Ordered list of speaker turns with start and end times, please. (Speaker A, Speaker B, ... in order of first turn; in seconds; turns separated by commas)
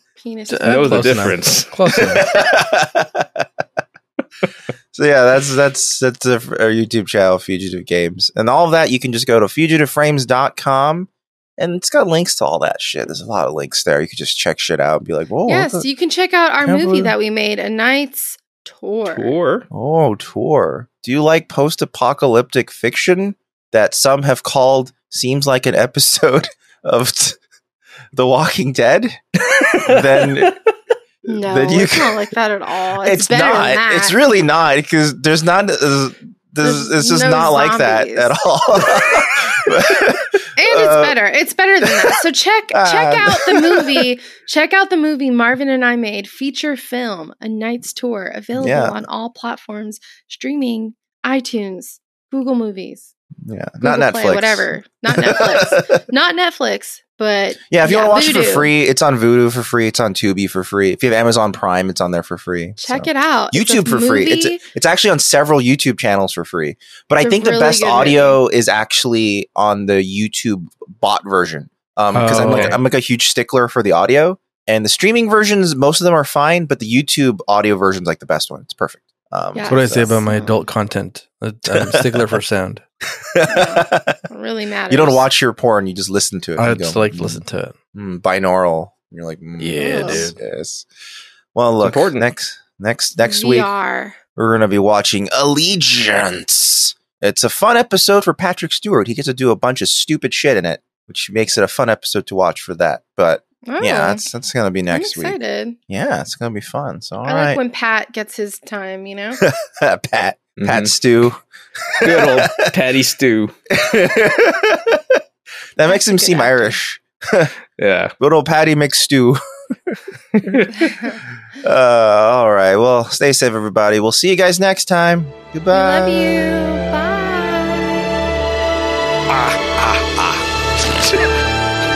Speaker A: 0.2-1.3, Speaker B: 0.5-2.4, Speaker C: 0.6-2.3, Speaker D: 2.0-3.5, Speaker D: 4.9-15.8, Speaker A: 15.4-19.3, Speaker D: 16.6-17.1, Speaker C: 19.1-19.7, Speaker D: 19.7-27.4, Speaker D: 28.1-29.2, Speaker C: 29.5-30.6, Speaker D: 29.8-30.6, Speaker A: 31.3-34.2, Speaker D: 31.3-32.3, Speaker D: 33.0-41.1, Speaker A: 36.6-38.3, Speaker A: 40.6-53.1, Speaker D: 41.8-42.2, Speaker D: 42.7-44.1, Speaker D: 48.5-49.0, Speaker D: 53.4-56.0, Speaker A: 53.8-58.7, Speaker D: 57.7-80.2, Speaker A: 62.8-64.6, Speaker A: 67.2-68.4, Speaker B: 72.1-72.8, Speaker C: 72.5-72.8, Speaker A: 79.5-80.6, Speaker B: 79.7-82.8, Speaker D: 81.7-82.4, Speaker D: 83.3-84.2, Speaker A: 83.4-85.2, Speaker D: 84.9-90.8, Speaker B: 86.6-87.7, Speaker B: 89.6-90.4, Speaker A: 89.8-90.3, Speaker D: 91.5-93.7, Speaker C: 91.8-92.3, Speaker A: 93.2-94.2, Speaker D: 94.3-105.4, Speaker A: 103.7-104.2, Speaker A: 104.9-105.8, Speaker D: 105.9-107.6, Speaker A: 107.2-109.4, Speaker D: 109.4-112.7, Speaker C: 110.6-110.9, Speaker C: 112.0-113.5, Speaker D: 113.7-115.2, Speaker D: 115.8-117.5, Speaker A: 115.9-116.8, Speaker C: 117.8-118.1, Speaker D: 118.2-120.0, Speaker C: 120.3-120.7, Speaker A: 120.8-121.2, Speaker D: 121.6-126.4, Speaker A: 125.7-127.9, Speaker C: 129.3-130.4